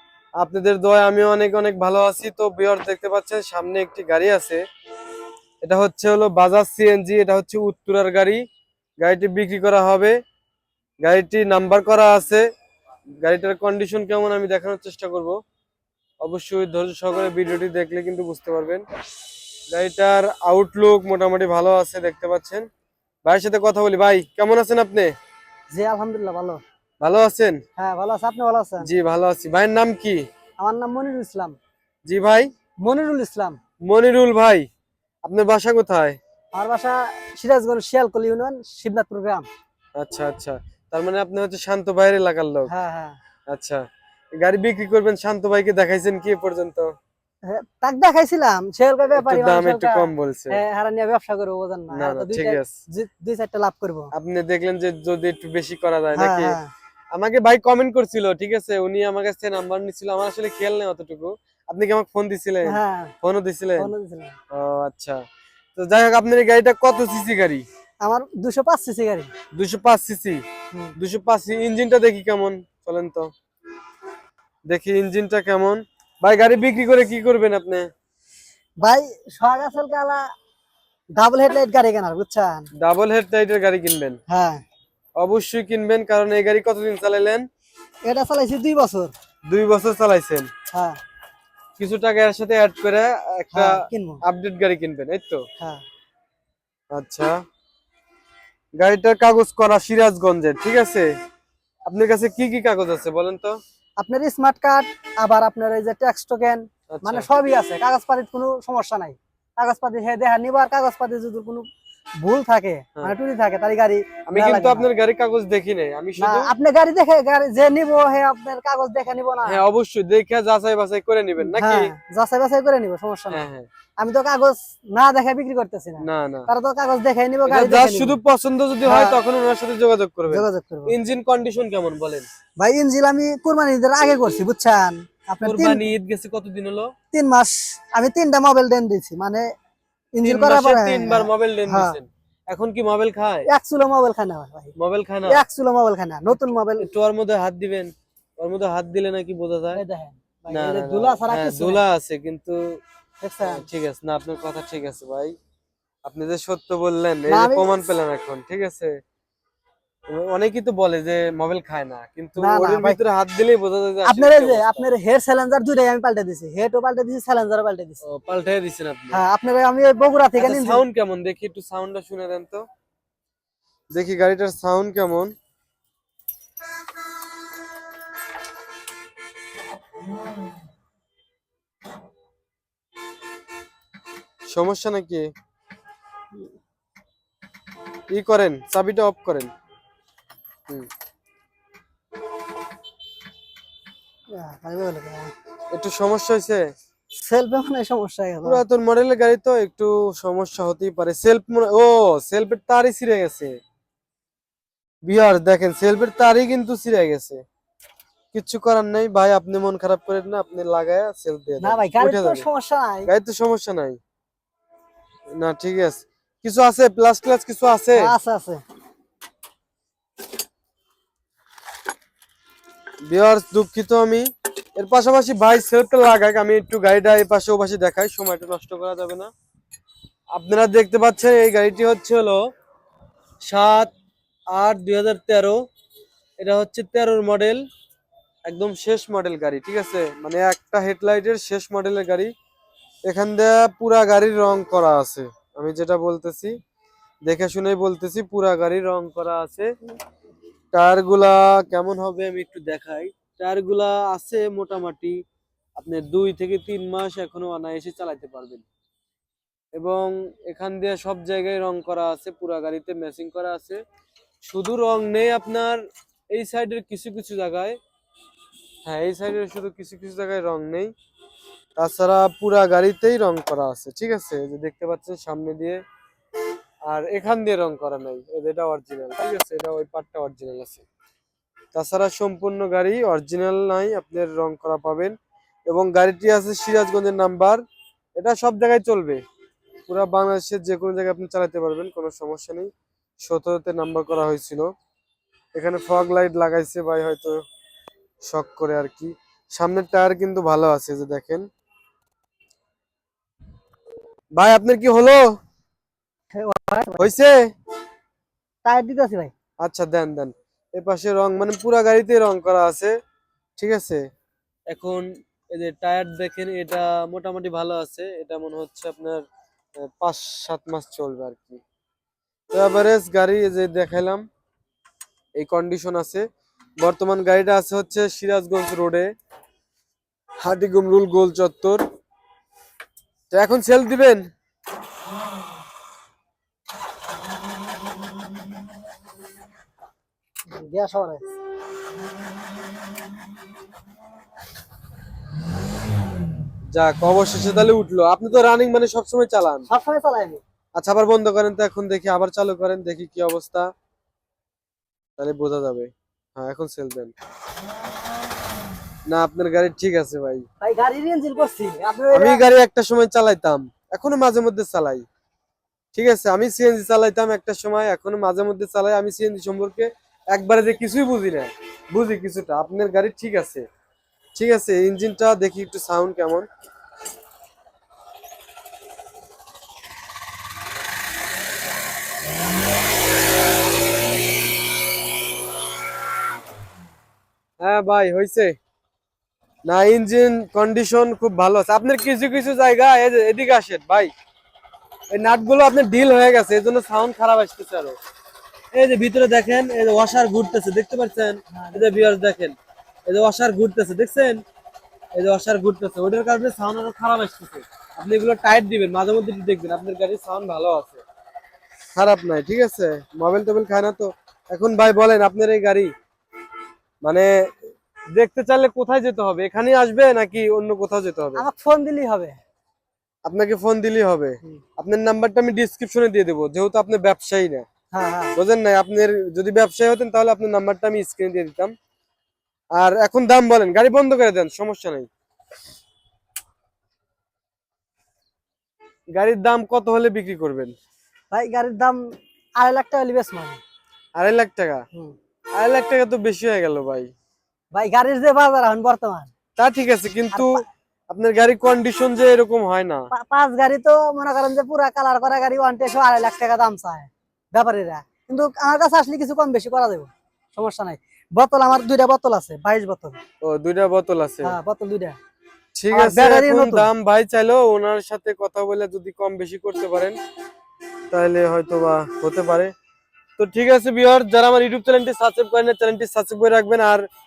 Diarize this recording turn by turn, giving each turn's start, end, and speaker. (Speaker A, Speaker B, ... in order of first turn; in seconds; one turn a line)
Speaker A: 0.4-4.6
Speaker A: 5.6-8.4
Speaker A: 9.0-10.2
Speaker A: 11.0-12.4
Speaker A: 13.2-15.4
Speaker A: 16.2-18.8
Speaker A: 19.7-22.7
Speaker A: 23.2-25.1
Speaker B: 25.7-26.6
Speaker A: 27.0-27.6
Speaker B: 27.8-28.9
Speaker A: 28.8-30.2
Speaker B: 30.6-31.6
Speaker A: 32.1-32.5
Speaker B: 32.8-33.6
Speaker A: 33.9-34.7
Speaker A: 35.2-36.2
Speaker B: 36.5-39.5
Speaker A: 40.0-42.7
Speaker B: 42.7-43.2
Speaker A: 43.5-43.8
Speaker A: 44.4-46.9
Speaker B: 47.5-54.1
Speaker A: 49.2-50.6
Speaker A: 51.9-52.7
Speaker A: 54.1-56.6
Speaker B: 56.1-56.7
Speaker A: 57.1-63.9
Speaker B: 62.6-63.1
Speaker B: 63.8-64.3
Speaker A: 64.5-65.2
Speaker A: 65.8-67.7
Speaker B: 68.0-69.3
Speaker A: 69.5-70.4
Speaker A: 71.0-73.3
Speaker A: 74.7-77.9
Speaker B: 78.8-80.2
Speaker B: 81.2-82.7
Speaker A: 82.8-84.2
Speaker B: 84.3-84.6
Speaker A: 85.2-87.5
Speaker B: 88.0-89.1
Speaker A: 89.5-90.5
Speaker B: 90.7-91.0
Speaker A: 91.8-95.4
Speaker B: 93.5-94.2
Speaker A: 96.9-97.4
Speaker A: 98.8-101.1
Speaker A: 101.9-103.6
Speaker B: 104.0-111.7
Speaker A: 106.9-107.3
Speaker B: 112.2-114.9
Speaker A: 114.3-116.5
Speaker B: 116.2-119.6
Speaker A: 119.5-121.9
Speaker B: 121.4-123.4
Speaker A: 123.3-123.7
Speaker B: 124.0-128.2
Speaker A: 126.0-126.5
Speaker A: 127.5-132.3
Speaker B: 128.8-129.2
Speaker B: 130.3-130.9
Speaker B: 132.6-135.9
Speaker A: 135.4-136.9
Speaker B: 137.1-139.5
Speaker B: 140.1-142.0
Speaker A: 140.2-143.5
Speaker B: 143.5-144.8
Speaker A: 144.8-145.4
Speaker B: 145.3-146.9
Speaker A: 146.8-149.8
Speaker B: 149.7-151.8
Speaker A: 150.5-152.8
Speaker B: 153.2-153.6
Speaker A: 153.4-155.3
Speaker A: 156.1-159.0
Speaker B: 157.3-157.8
Speaker A: 160.1-164.9
Speaker B: 162.4-163.0
Speaker B: 164.1-168.0
Speaker A: 168.0-169.2
Speaker B: 169.1-170.8
Speaker A: 170.4-172.7
Speaker A: 173.9-175.3
Speaker A: 184.5-185.3
Speaker A: 188.1-189.5
Speaker B: 194.3-195.3
Speaker A: 195.7-196.7
Speaker B: 197.2-198.6
Speaker A: 198.4-203.6
Speaker A: 205.0-207.4
Speaker A: 208.3-212.4
Speaker B: 211.6-213.1
Speaker A: 213.1-214.0
Speaker A: 215.4-218.1
Speaker B: 218.0-218.6
Speaker A: 223.1-229.3
Speaker A: 230.3-232.4
Speaker A: 233.4-233.9
Speaker A: 234.5-235.6
Speaker A: 236.4-237.7
Speaker A: 238.5-242.3
Speaker A: 243.1-246.6
Speaker A: 247.3-249.7
Speaker A: 250.7-255.2
Speaker A: 255.8-258.7
Speaker A: 259.8-263.8
Speaker A: 264.4-267.8
Speaker A: 268.9-270.9
Speaker A: 271.8-275.8
Speaker A: 276.9-280.9
Speaker A: 281.7-285.1
Speaker A: 285.7-287.6
Speaker A: 288.2-289.2
Speaker A: 289.9-292.7
Speaker A: 293.2-294.7
Speaker A: 295.6-297.4
Speaker A: 298.2-301.5
Speaker A: 304.4-305.3
Speaker B: 306.4-307.1
Speaker A: 307.0-307.4
Speaker B: 308.6-309.3
Speaker A: 309.6-312.9
Speaker A: 313.6-314.0
Speaker A: 314.7-319.2
Speaker A: 319.9-321.6
Speaker A: 322.5-324.2
Speaker A: 325.4-326.2
Speaker A: 326.8-329.1
Speaker A: 330.4-331.8
Speaker A: 333.3-334.3
Speaker B: 340.5-341.2
Speaker A: 346.7-349.7
Speaker B: 349.7-350.4
Speaker A: 350.8-353.7
Speaker A: 355.2-357.1
Speaker A: 359.1-360.4
Speaker B: 360.6-362.4
Speaker A: 362.1-365.0
Speaker A: 365.9-373.6
Speaker A: 374.4-376.5
Speaker A: 387.6-388.5
Speaker A: 389.7-394.1
Speaker A: 395.1-398.0
Speaker A: 398.7-404.4
Speaker B: 401.5-402.0
Speaker A: 405.1-411.0
Speaker A: 411.9-415.9
Speaker A: 417.0-421.4
Speaker B: 421.4-422.4
Speaker A: 423.2-427.6
Speaker B: 427.9-428.4
Speaker A: 428.4-431.7
Speaker A: 432.8-435.1
Speaker A: 439.1-440.7
Speaker B: 441.3-442.0
Speaker B: 442.6-443.6
Speaker A: 444.2-444.9
Speaker A: 445.6-447.1
Speaker B: 447.7-449.3
Speaker A: 449.6-453.1
Speaker B: 450.3-450.6
Speaker B: 453.1-463.2
Speaker A: 463.4-464.6
Speaker B: 464.4-465.2
Speaker A: 465.8-470.2
Speaker B: 465.9-466.9
Speaker A: 471.1-472.7
Speaker A: 473.4-477.1